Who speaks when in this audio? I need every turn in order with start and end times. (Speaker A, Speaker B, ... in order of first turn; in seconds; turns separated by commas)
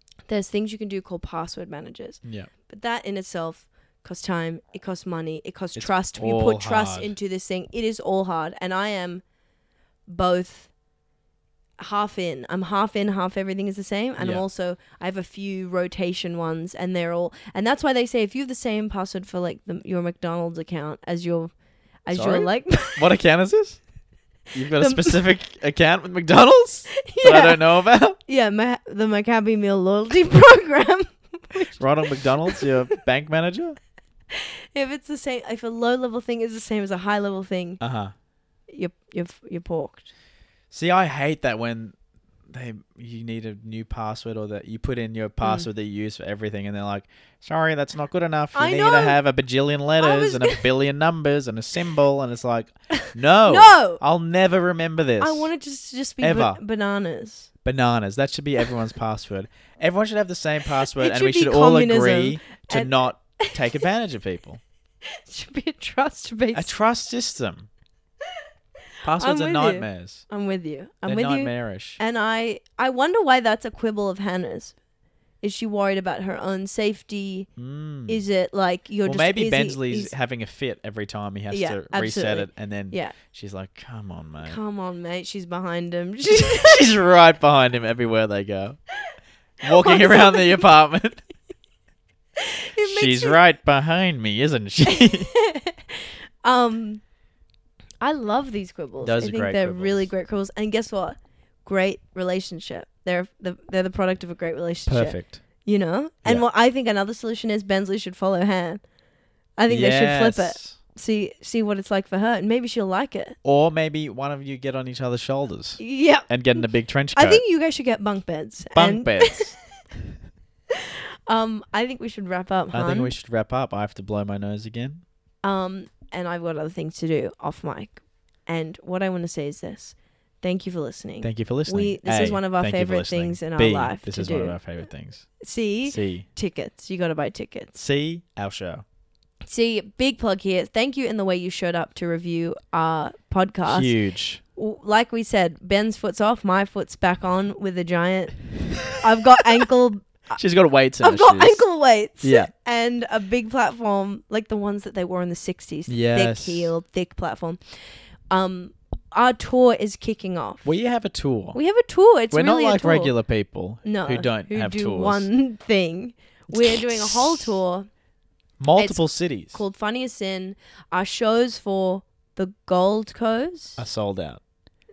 Speaker A: 0.3-9.2, Speaker B: 2.2-2.5, Speaker B: 5.8-7.1, Speaker A: 10.1-10.7, Speaker A: 11.8-21.5, Speaker B: 14.2-14.4, Speaker A: 22.1-23.1, Speaker B: 22.1-23.8, Speaker B: 24.5-28.2, Speaker A: 24.8-25.2, Speaker A: 27.0-27.6, Speaker A: 28.2-32.7, Speaker B: 31.8-33.8, Speaker A: 34.3-37.8, Speaker B: 37.8-38.1, Speaker A: 38.7-40.1, Speaker B: 40.7-42.0, Speaker B: 42.5-55.5, Speaker A: 45.4-45.7, Speaker A: 48.5-49.2, Speaker A: 50.0-50.6, Speaker A: 53.0-54.0, Speaker A: 55.2-57.5, Speaker B: 56.2-56.6, Speaker B: 57.6-64.6, Speaker A: 60.9-63.8, Speaker A: 65.2-66.7, Speaker B: 66.5-67.7, Speaker B: 69.0-70.3, Speaker A: 69.2-74.8, Speaker B: 71.1-72.0, Speaker A: 75.4-77.5, Speaker B: 77.6-78.2, Speaker A: 78.1-80.1, Speaker B: 79.0-84.6, Speaker A: 81.5-83.2, Speaker A: 84.5-86.9, Speaker B: 86.3-88.8, Speaker B: 89.6-91.2, Speaker A: 89.7-90.6, Speaker A: 92.4-93.4, Speaker B: 92.8-95.3, Speaker A: 95.1-97.0, Speaker A: 98.0-108.8, Speaker B: 99.0-100.1, Speaker B: 104.9-105.4, Speaker A: 109.6-113.4, Speaker B: 109.7-110.8, Speaker B: 113.4-117.4, Speaker A: 115.8-116.3, Speaker A: 117.1-119.5, Speaker B: 118.7-119.5, Speaker A: 120.7-123.1, Speaker B: 122.7-125.0, Speaker A: 125.4-134.6, Speaker B: 131.2-135.3, Speaker A: 135.4-137.8, Speaker B: 135.9-136.3, Speaker B: 137.8-138.8, Speaker A: 139.5-143.9, Speaker B: 143.7-144.4, Speaker A: 144.6-150.4, Speaker B: 150.3-151.6, Speaker A: 151.0-160.7, Speaker B: 152.2-152.5, Speaker B: 155.9-156.7, Speaker B: 160.7-161.6, Speaker A: 161.5-163.1, Speaker B: 162.3-165.3, Speaker A: 163.8-167.9, Speaker B: 166.5-167.5, Speaker B: 168.6-169.6, Speaker A: 168.8-173.8, Speaker B: 173.8-174.4